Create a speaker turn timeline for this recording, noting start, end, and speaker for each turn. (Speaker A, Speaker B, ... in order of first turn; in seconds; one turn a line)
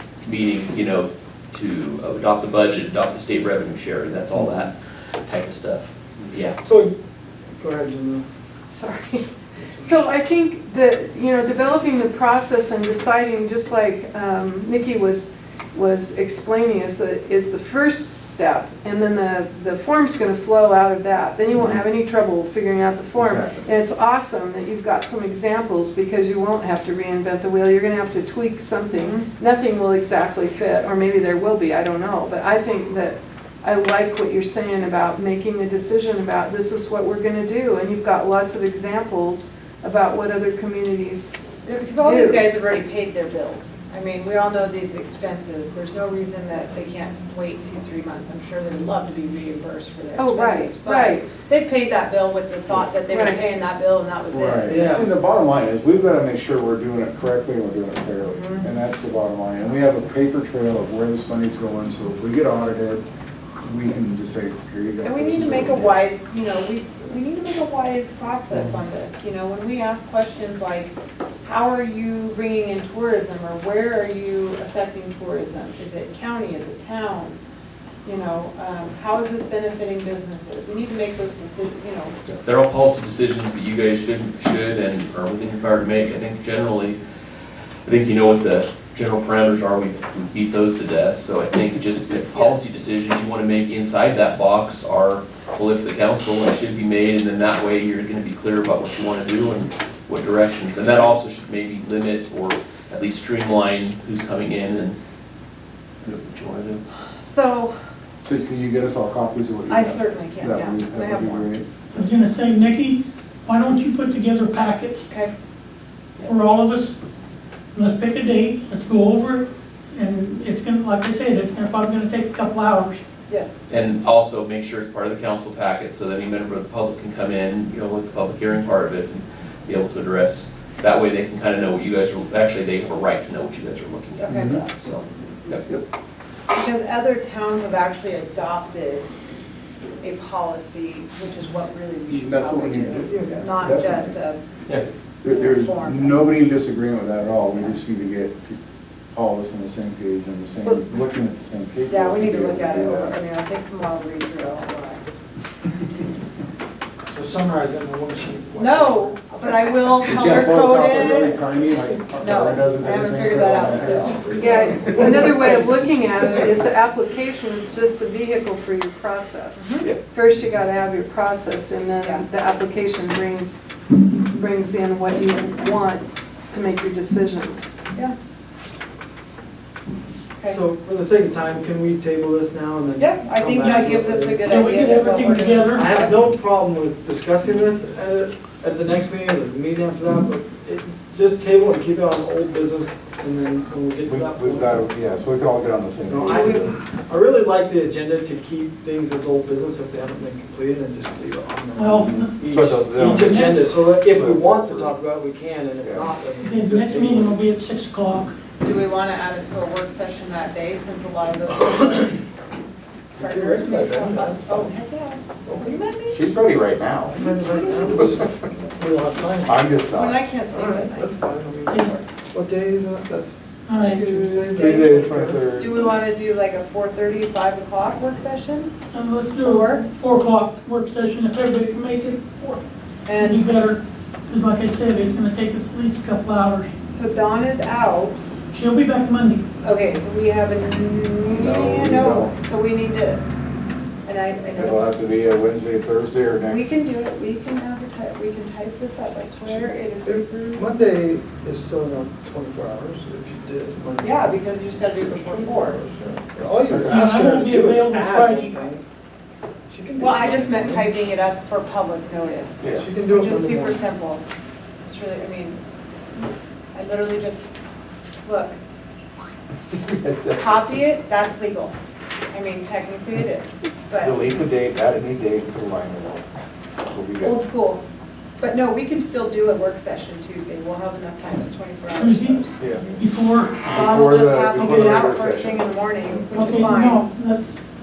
Speaker A: 0.2-6.6
Speaker B: 6.6-6.9
Speaker B: 7.6-8.2
Speaker C: 8.7-9.3
Speaker C: 9.8-41.4
Speaker D: 23.1-23.6
Speaker E: 41.6-55.0
Speaker C: 42.0-42.5
Speaker C: 50.1-51.3
Speaker C: 53.0-53.4
Speaker D: 54.3-63.0
Speaker B: 54.6-55.1
Speaker E: 58.4-58.6
Speaker D: 63.6-66.0
Speaker E: 65.0-77.4
Speaker A: 68.5-68.8
Speaker E: 78.0-82.2
Speaker A: 82.3-105.0
Speaker A: 106.0-106.8
Speaker E: 107.2-107.7
Speaker D: 108.2-111.7
Speaker E: 109.7-111.5
Speaker F: 111.9-115.1
Speaker F: 116.2-117.0
Speaker F: 117.7-123.0
Speaker E: 123.3-123.6
Speaker A: 123.7-135.7
Speaker E: 134.2-134.7
Speaker D: 134.3-134.7
Speaker E: 136.5-139.1
Speaker E: 140.0-144.4
Speaker D: 142.1-144.2
Speaker B: 143.1-143.5
Speaker D: 145.2-148.6
Speaker E: 145.2-146.6
Speaker D: 149.1-153.2
Speaker E: 151.9-155.0
Speaker B: 157.1-159.2
Speaker E: 158.6-165.2
Speaker D: 160.0-165.4
Speaker B: 160.1-161.2
Speaker C: 164.3-173.6
Speaker B: 164.9-165.7
Speaker E: 169.6-169.9
Speaker C: 174.3-177.7
Speaker B: 180.5-185.0
Speaker E: 183.0-186.2
Speaker F: 183.6-185.9
Speaker B: 185.7-194.8
Speaker D: 194.1-196.8
Speaker B: 196.1-207.4
Speaker E: 196.3-196.6
Speaker F: 201.8-202.3
Speaker D: 201.9-205.0
Speaker F: 202.9-203.6
Speaker D: 205.8-206.1
Speaker F: 206.4-208.4
Speaker E: 208.6-212.2
Speaker B: 213.2-214.7
Speaker E: 213.2-216.2
Speaker B: 215.4-215.9
Speaker D: 216.1-218.3
Speaker B: 217.1-219.8
Speaker E: 217.2-217.9
Speaker D: 219.5-220.2
Speaker E: 219.9-221.1
Speaker B: 220.5-225.9
Speaker F: 221.7-222.0
Speaker F: 223.7-224.1
Speaker E: 223.8-225.0
Speaker D: 224.5-225.8
Speaker E: 225.5-228.7
Speaker F: 228.9-232.6
Speaker E: 229.4-229.9
Speaker E: 233.1-233.5
Speaker F: 233.2-236.7
Speaker E: 236.9-238.2
Speaker F: 238.5-239.4
Speaker E: 239.6-243.2
Speaker D: 241.3-242.3
Speaker E: 244.1-244.8
Speaker D: 244.6-246.9
Speaker E: 246.4-250.7
Speaker B: 249.5-258.8
Speaker E: 254.0-255.8
Speaker D: 256.7-257.1
Speaker F: 256.9-258.6
Speaker B: 259.7-261.0
Speaker E: 259.9-264.2
Speaker B: 262.6-263.9
Speaker E: 264.9-265.6
Speaker E: 266.7-267.5
Speaker E: 268.2-268.6
Speaker D: 269.9-270.5
Speaker E: 270.4-271.8
Speaker E: 272.3-274.2
Speaker D: 274.0-277.4
Speaker E: 277.2-277.8
Speaker E: 278.4-282.6
Speaker F: 281.9-282.4
Speaker F: 282.9-283.6
Speaker D: 283.6-286.7
Speaker E: 283.7-287.0
Speaker F: 286.3-287.4